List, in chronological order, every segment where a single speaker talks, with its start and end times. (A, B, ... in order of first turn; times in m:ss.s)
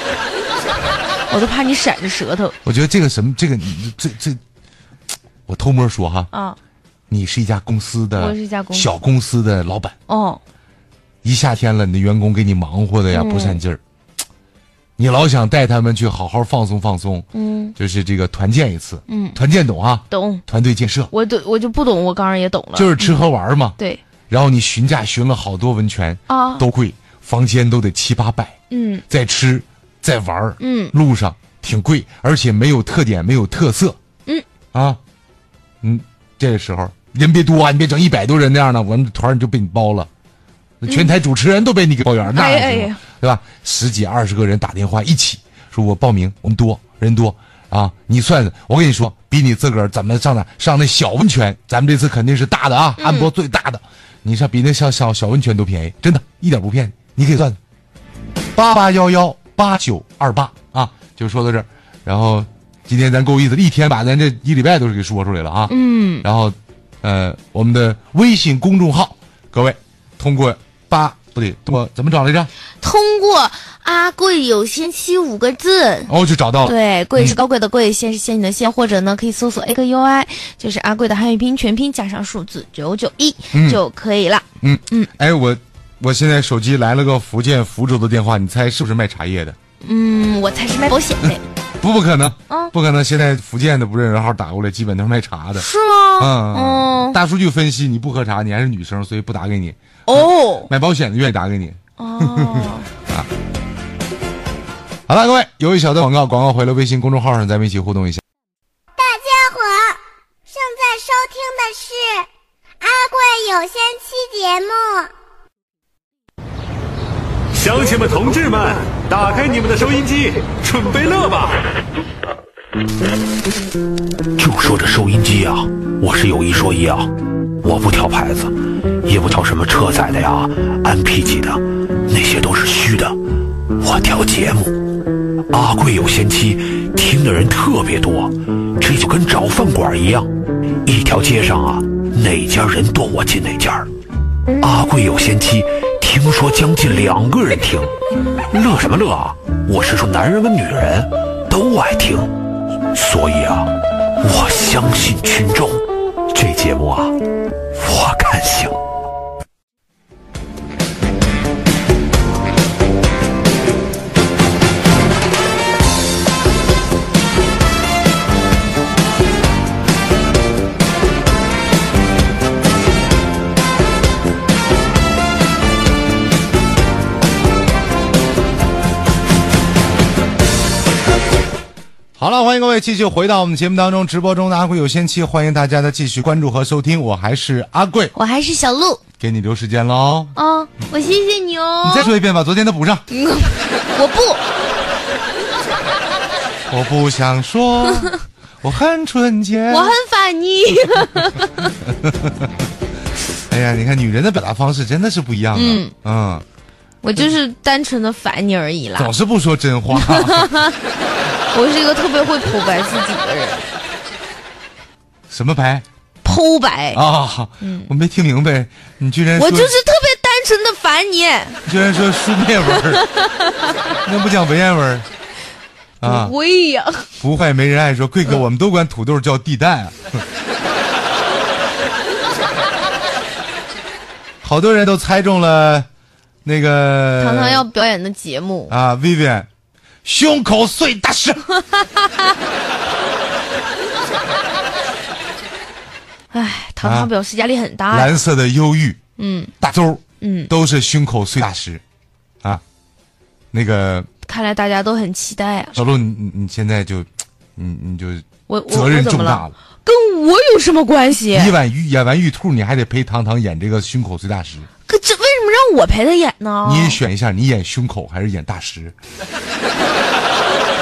0:01.3-0:02.6 A
0:02.6-0:04.4 B
0:05.5-0:06.3 B
0:06.3-0:06.6 A
0:07.1-0:09.9 B
0:08.2-0:08.9 A
0:10.1-0:10.4 A
0:11.2-0:13.8 B
0:13.1-0:13.6 A
0:15.0-0:21.1 B
0:17.3-0:17.7 A
0:19.1-0:19.4 A
0:20.1-0:20.4 A
0:21.1-0:23.2 A
0:22.8-0:23.8 B
0:24.3-0:28.5 B
0:26.3-0:26.6 A
0:28.7-0:29.0 A
0:29.1-0:34.0 B
0:30.6-0:30.9 A
0:34.7-0:35.0 B
0:35.8-0:40.1 B
0:40.8-0:57.6 B
0:40.9-0:41.1 A
0:42.3-0:43.0 A
0:53.0-0:53.3 A
0:58.6-1:12.5 B
1:05.7-1:06.2 A
1:12.8-1:16.1 A
1:16.1-1:17.4 B
1:16.6-1:25.1 A
1:23.5-1:23.8 B
1:24.6-1:29.6 B
1:29.8-1:31.4 A
1:31.8-1:35.6 B
1:35.6-1:37.2 A
1:36.2-1:43.3 B
1:40.1-1:40.7 A
1:42.0-1:42.9 A
1:45.1-1:48.2 B
1:49.0-1:52.2 C
1:52.8-1:55.1 C
1:57.5-2:01.6 D
2:04.4-2:13.2 E
2:13.8-2:14.8 E
2:15.5-2:20.3 E
2:20.8-2:23.9 E
2:24.6-2:28.0 E
2:28.5-2:32.3 E
2:32.9-2:37.2 E
2:37.7-2:38.8 E
3:02.2-3:08.1 B
3:08.1-3:09.0 A
3:09.2-3:10.3 B
3:10.4-3:12.1 A
3:11.8-3:13.0 B
3:13.1-3:14.4 A
3:16.7-3:20.0 B
3:19.7-3:21.7 A
3:21.8-3:22.5 B
3:23.5-3:26.4 B
3:25.5-3:25.9 A
3:27.0-3:29.1 A
3:29.0-3:30.5 B
3:29.9-3:30.7 A
3:31.5-3:33.7 A
3:35.3-3:35.8 B
3:36.2-3:37.0 A
3:36.9-3:39.7 B
3:37.6-3:37.9 A
3:39.4-3:41.6 A
3:41.6-3:43.0 B
3:42.7-3:43.8 A
3:44.0-3:45.0 B
3:46.0-3:46.3 B
3:46.0-3:47.1 A
3:47.2-3:50.2 B
3:54.4-3:55.9 B
3:56.4-3:57.6 B
3:57.2-3:58.7 A
3:58.7-3:59.5 B
4:00.0-4:01.4 B
4:06.3-4:08.1 A
4:06.8-4:07.1 B
4:07.9-4:09.0 B
4:09.2-4:09.5 A
4:09.6-4:11.8 B
4:10.2-4:10.5 A
4:13.5-4:14.1 B
4:14.2-4:15.8 A
4:15.7-4:19.5 B
4:18.5-4:21.5 A
4:21.3-4:24.7 B
4:24.8-4:27.0 A
4:26.6-4:28.9 B